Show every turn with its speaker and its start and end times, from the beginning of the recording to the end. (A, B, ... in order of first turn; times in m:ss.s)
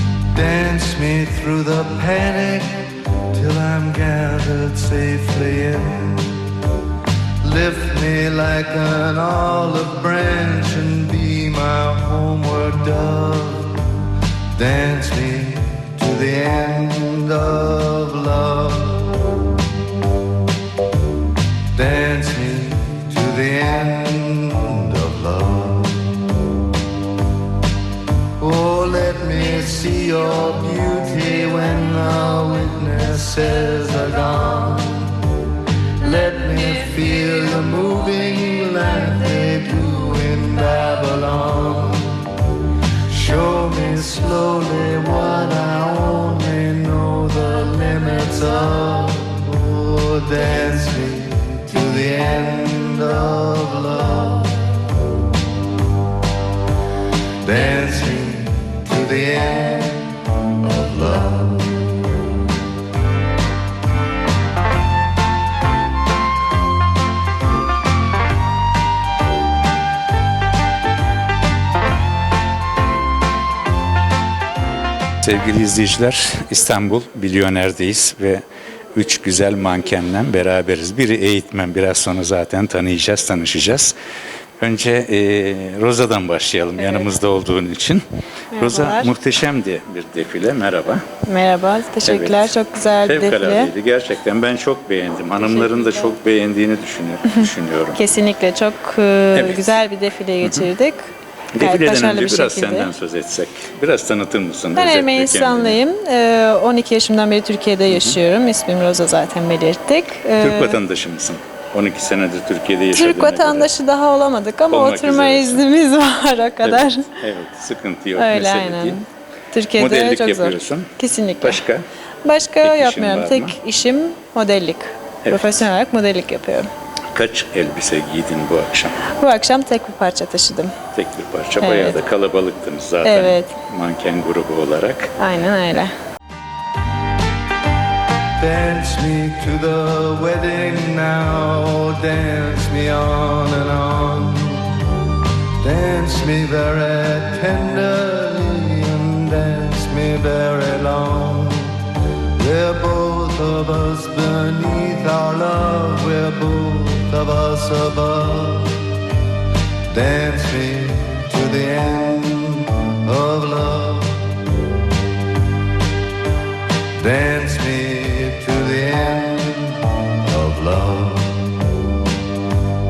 0:00.3-0:06.5 A
0:07.4-0:14.0 A
0:14.6-0:19.3 A
0:21.7-0:26.4 A
0:28.4-0:35.3 A
0:36.0-0:42.3 A
0:43.1-0:54.9 A
0:57.4-1:01.9 A
1:15.2-1:18.4 B
1:18.9-1:23.9 B
1:24.6-1:28.0 B
1:28.5-1:29.1 C
1:28.6-1:31.0 B
1:31.3-1:33.7 C
1:32.0-1:38.0 B
1:38.0-1:42.9 C
1:39.3-1:39.8 B
1:40.4-1:40.7 B
1:41.5-1:45.8 B
1:44.7-1:50.8 C
1:47.9-1:48.2 B
1:50.4-1:53.7 B
1:52.9-1:57.1 C
1:54.7-1:55.7 B
1:56.6-1:59.0 B
1:58.2-2:01.6 C
1:59.8-2:01.8 B
2:02.2-2:06.7 C
2:02.6-2:03.6 B
2:05.2-2:05.7 B
2:07.1-2:09.0 B
2:09.0-2:10.7 C
2:10.9-2:15.1 B
2:11.6-2:12.0 C
2:13.0-2:13.6 C
2:15.2-2:15.9 C
2:18.4-2:24.8 A
2:25.6-2:39.0 A
2:39.9-2:44.4 A
2:47.0-2:52.0 A